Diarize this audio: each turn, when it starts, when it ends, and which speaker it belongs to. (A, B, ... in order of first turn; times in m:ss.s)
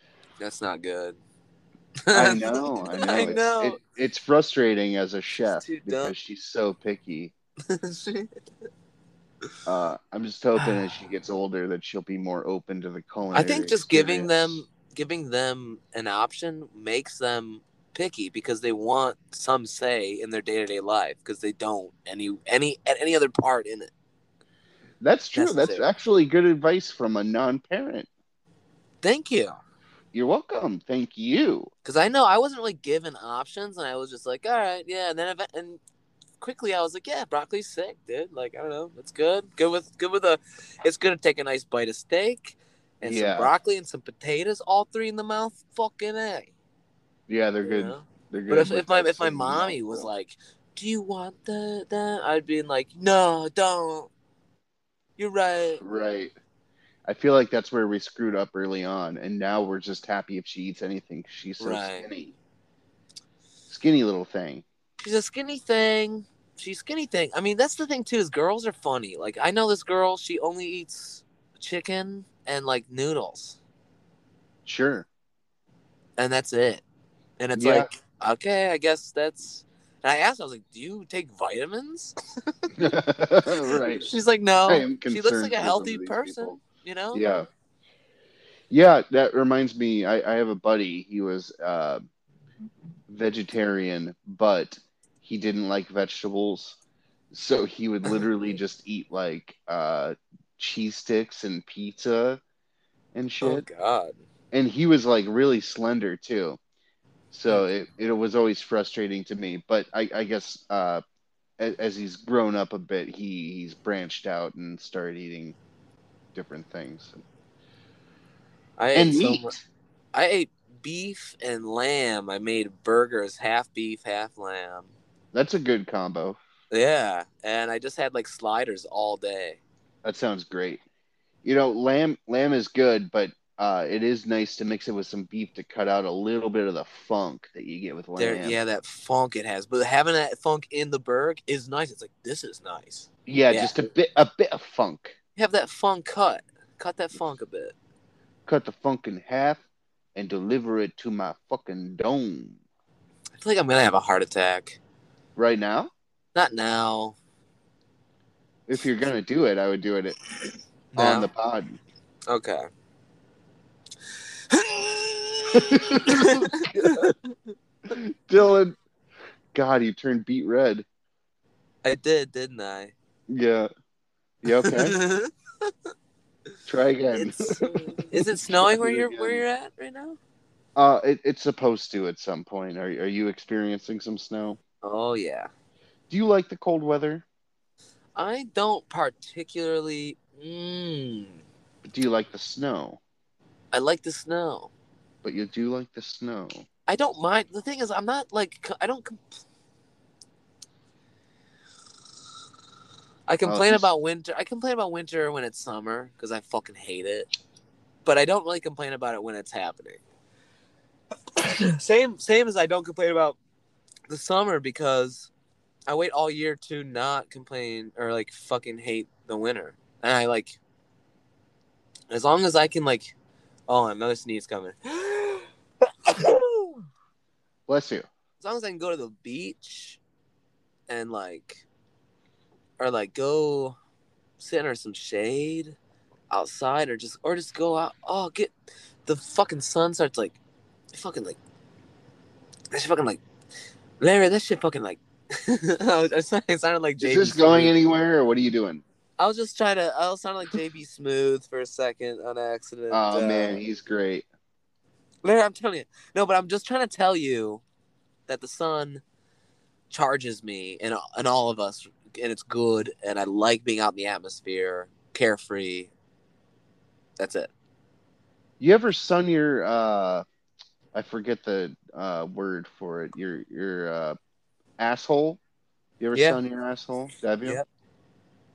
0:00.4-0:01.2 A
0:02.0-0:03.8 A
0:02.1-0:07.3 B
0:05.6-0:06.1 A
0:07.7-0:08.3 A
0:09.7-0:14.6 B
0:13.3-0:23.9 A
0:25.0-0:28.1 B
0:25.3-0:25.9 A
0:29.0-0:29.6 A
0:30.1-0:31.7 B
0:31.8-0:35.8 A
0:36.4-0:46.5 A
0:43.0-0:43.5 B
0:47.3-0:50.1 B
0:47.6-0:54.1 A
0:55.2-0:55.8 A
0:55.8-0:56.3 B
0:57.1-1:02.4 B
1:01.6-1:02.1 A
1:03.7-1:04.6 B
1:05.0-1:13.6 A
1:14.7-1:15.1 B
1:16.2-1:16.8 A
1:17.4-1:22.7 A
1:17.6-1:17.9 B
1:22.8-1:24.1 B
1:23.7-1:27.2 A
1:24.7-1:26.6 B
1:27.1-1:27.5 B
1:28.7-1:32.0 B
1:33.1-1:36.8 B
1:37.3-1:42.4 B
1:43.2-1:43.7 B
1:43.4-1:44.2 A
1:44.5-1:46.6 B
1:47.3-1:51.0 B
1:51.6-1:55.6 B
1:56.4-1:57.2 B
1:58.8-1:59.6 A
1:58.9-1:59.6 B
2:00.1-2:04.9 A
2:05.3-2:06.4 B
2:06.7-2:09.6 A
2:10.0-2:10.8 B
2:11.4-2:18.6 B
2:18.2-2:23.8 A
2:23.3-2:25.2 B
2:25.4-2:27.8 A
2:28.5-2:29.6 B
2:30.2-2:32.6 B
2:33.4-2:34.8 A
2:35.4-2:35.9 B
2:36.3-2:37.2 A
2:38.7-2:40.2 B
2:40.9-2:41.3 A
2:41.0-2:41.8 B
2:42.3-2:42.7 A
2:44.5-2:47.1 A
2:45.5-2:47.1 B
2:47.9-2:48.8 B
2:49.5-2:50.9 B
2:51.8-2:52.9 A
2:53.3-2:53.7 B
2:54.4-2:55.0 B
2:54.6-2:55.7 A
2:56.7-2:59.4 B
2:57.1-3:00.2 A
3:00.8-3:04.6 B
3:04.8-3:05.5 A
3:06.1-3:07.2 B
3:08.2-3:11.4 A
3:11.8-3:13.0 B
3:13.7-3:14.7 A
3:15.2-3:16.6 B
3:16.9-3:19.4 A
3:23.3-3:27.3 A
3:23.4-3:23.9 B
3:28.0-3:30.0 A
3:31.4-3:33.4 A
3:34.1-3:35.3 A
3:35.9-3:40.6 A
3:42.1-3:43.2 A
3:43.7-3:45.5 A
3:46.0-3:46.8 A
3:47.7-3:48.1 B
3:48.4-3:50.0 A
3:50.9-3:51.6 A
3:52.8-3:53.8 A
3:54.4-3:55.8 A
3:56.3-3:58.5 A
3:59.0-4:00.4 A
4:00.9-4:01.4 A
4:02.7-4:03.2 A
4:04.0-4:07.8 A
4:07.0-4:08.8 B
4:09.2-4:13.6 A
4:12.9-4:14.3 B
4:15.2-4:17.6 A
4:18.3-4:19.0 A
4:19.9-4:25.9 A
4:27.2-4:27.5 A
4:28.6-4:30.2 B
4:30.9-4:34.2 B
4:34.8-4:35.4 B
4:36.0-4:37.6 B
4:36.2-4:36.4 A